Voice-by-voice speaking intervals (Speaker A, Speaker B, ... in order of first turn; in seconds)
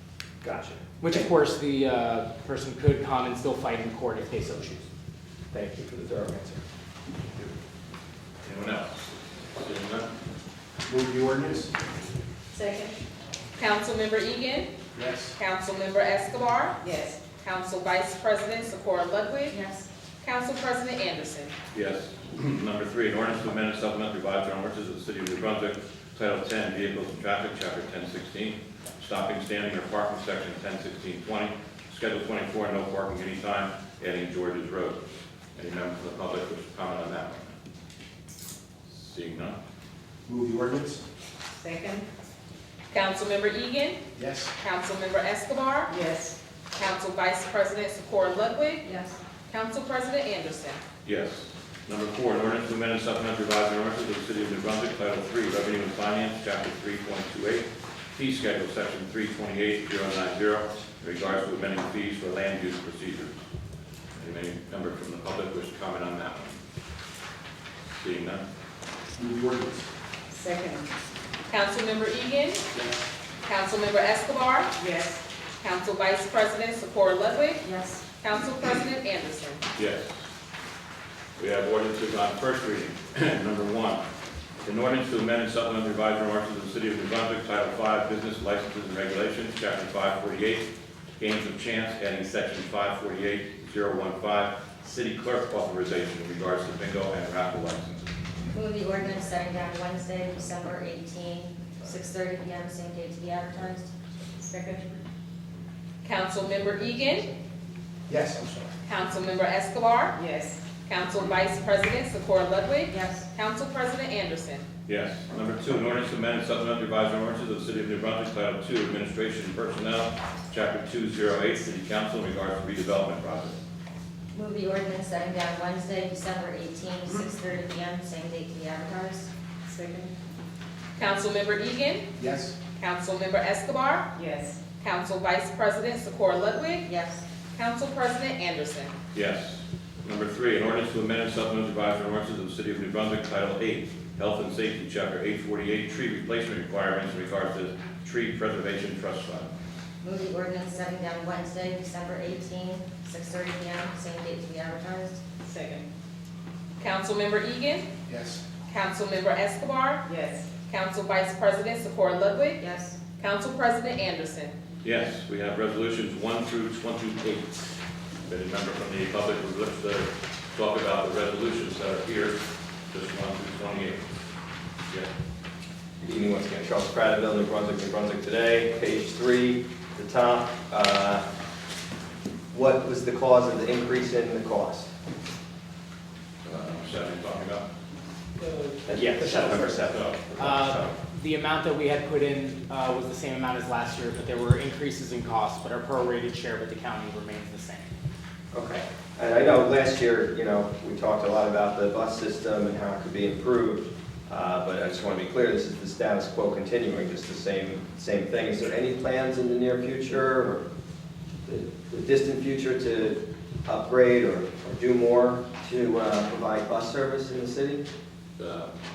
Speaker A: 0.4-1.3, 5.5-6.6, 176.0-181.2, 182.5-184.9, 188.9-190.9, 198.5-210.6, 211.5-217.8
Speaker B: 1.0-4.8, 190.4-197.9
Speaker C: 8.4-9.0, 9.6-10.1, 21.7-35.0, 35.5-37.6, 38.9-39.6, 51.0-63.4, 64.2-66.6, 68.0-68.4, 79.8-80.1, 81.4-84.0, 84.6-90.7, 91.2-98.1, 114.9-123.6, 139.1-149.5, 164.8-167.7, 168.2-174.1, 186.4-187.7, 189.3-190.2, 218.4-218.7
Speaker D: 10.9-11.7, 14.9-15.3, 40.3-41.0, 44.2-44.5, 69.2-69.8, 108.1-108.7, 132.2-132.6, 158.1-158.4
Speaker E: 12.6-12.9, 19.5-19.9, 48.8-49.2, 77.6-78.0, 98.5-103.9, 112.9-113.3, 124.3-129.3, 136.8-137.3, 150.0-155.2, 162.6-163.0
Speaker F: 13.6-14.7, 15.4-16.8, 17.3-19.6, 20.2-21.5, 42.9-44.0, 44.6-45.9, 46.8-48.9, 49.5-50.8, 71.5-72.6, 73.5-74.7, 75.6-77.6, 78.2-79.6, 106.0-107.3, 108.8-110.2, 110.8-114.6, 131.0-132.0, 132.8-134.1, 134.8-136.8, 137.5-138.9, 156.8-157.8, 158.7-160.1, 160.6-162.6, 163.2-164.5
Speaker G: 16.8-17.3, 41.6-42.1, 45.9-46.4, 70.3-70.9, 74.8-75.2, 104.4-104.9, 110.1-110.7, 129.7-130.1, 134.1-134.6, 155.4-155.9, 160.1-160.5